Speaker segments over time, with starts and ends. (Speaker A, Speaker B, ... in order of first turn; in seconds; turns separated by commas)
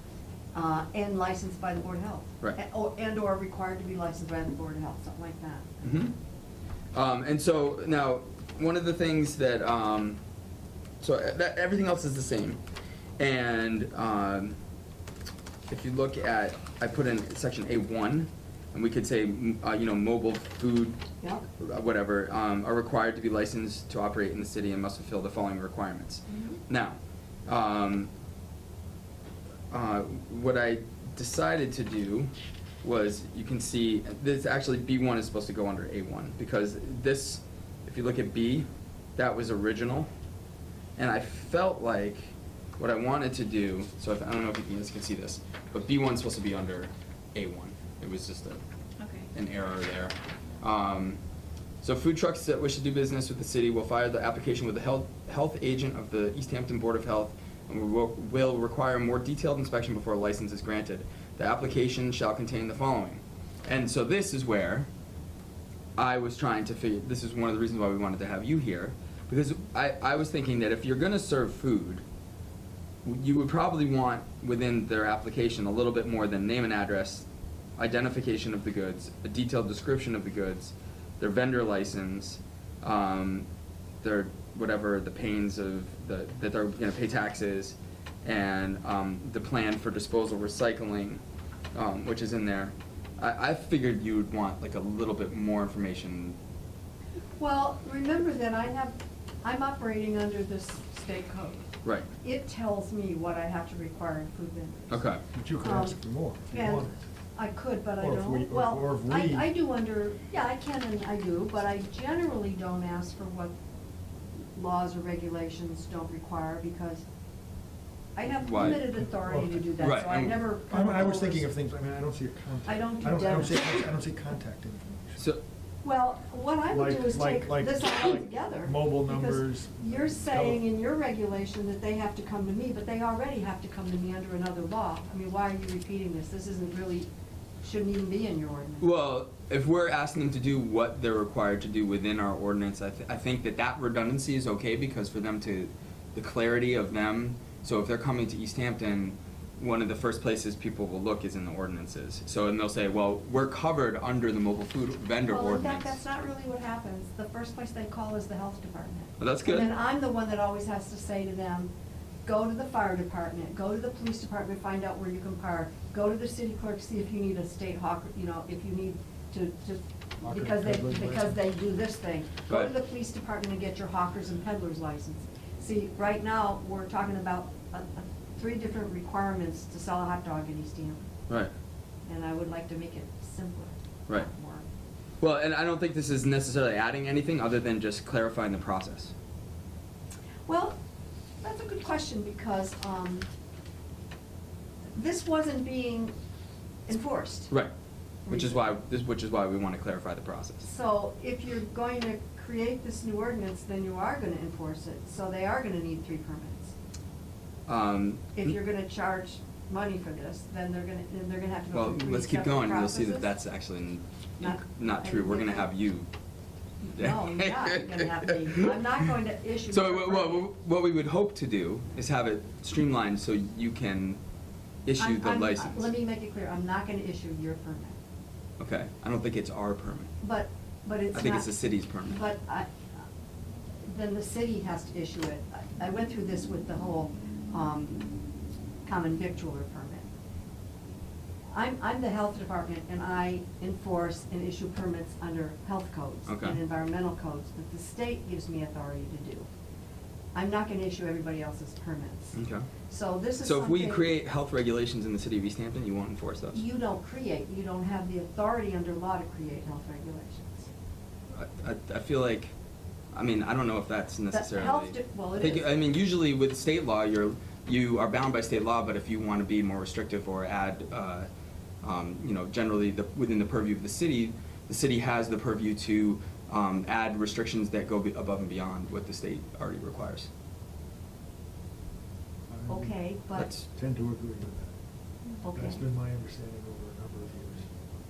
Speaker A: 0.5-6.0, Speaker B: 5.8-6.1, Speaker B: 6.9-10.2, Speaker B: 11.0-12.6, Speaker B: 13.2-14.6, Speaker B: 15.7-21.0, Speaker B: 21.6-26.9, Speaker A: 26.3-26.6, Speaker B: 27.5-28.1, Speaker B: 29.7-32.3, Speaker B: 32.8-40.1, Speaker B: 41.0-48.6, Speaker B: 49.3-51.2, Speaker B: 51.8-64.9, Speaker B: 66.0-72.0, Speaker B: 73.0-77.3, Speaker B: 77.8-83.5, Speaker B: 84.0-91.2, Speaker B: 91.7-96.4, Speaker A: 97.4-101.7, Speaker B: 101.8-102.1, Speaker A: 102.2-105.1, Speaker B: 104.9-105.2, Speaker C: 105.3-107.0, Speaker A: 105.6-106.0, Speaker A: 106.5-113.5, Speaker C: 108.0-109.5, Speaker A: 114.5-117.0, Speaker A: 118.2-121.5, Speaker B: 118.4-118.9, Speaker C: 119.0-119.7, Speaker B: 119.8-120.4, Speaker C: 120.7-125.2, Speaker A: 122.7-123.9, Speaker A: 125.8-137.1, Speaker C: 126.7-130.6, Speaker A: 137.6-138.9, Speaker B: 138.8-156.0, Speaker A: 155.3-161.7, Speaker B: 159.2-159.7, Speaker A: 162.2-181.1, Speaker C: 170.2-171.4, Speaker A: 182.1-184.6, Speaker B: 185.2-189.1, Speaker A: 190.5-190.8, Speaker A: 191.4-193.3, Speaker A: 194.9-196.1, Speaker A: 196.9-197.5, Speaker A: 198.2-198.8, Speaker B: 198.3-200.7, Speaker A: 200.6-206.7, Speaker B: 207.7-208.5, Speaker A: 208.4-213.3, Speaker B: 211.7-216.1, Speaker A: 214.4-215.7, Speaker A: 216.8-220.5, Speaker B: 217.0-218.7, Speaker B: 219.7-224.2, Speaker B: 224.8-225.9, Speaker A: 225.0-228.0, Speaker B: 228.6-230.1, Speaker A: 230.2-231.5, Speaker B: 231.1-232.2, Speaker A: 232.0-232.7, Speaker A: 233.9-238.2, Speaker A: 238.8-240.1, Speaker A: 241.5-249.5, Speaker B: 246.3-246.6, Speaker A: 250.3-252.3, Speaker B: 252.3-252.7, Speaker A: 252.9-254.1, Speaker B: 253.4-256.6, Speaker A: 256.5-260.7, Speaker B: 261.3-262.5, Speaker B: 263.1-271.3, Speaker A: 264.3-265.7, Speaker B: 271.8-280.3, Speaker C: 282.5-284.8, Speaker A: 282.7-283.5, Speaker B: 283.4-283.6, Speaker A: 285.4-285.8, Speaker C: 285.5-287.7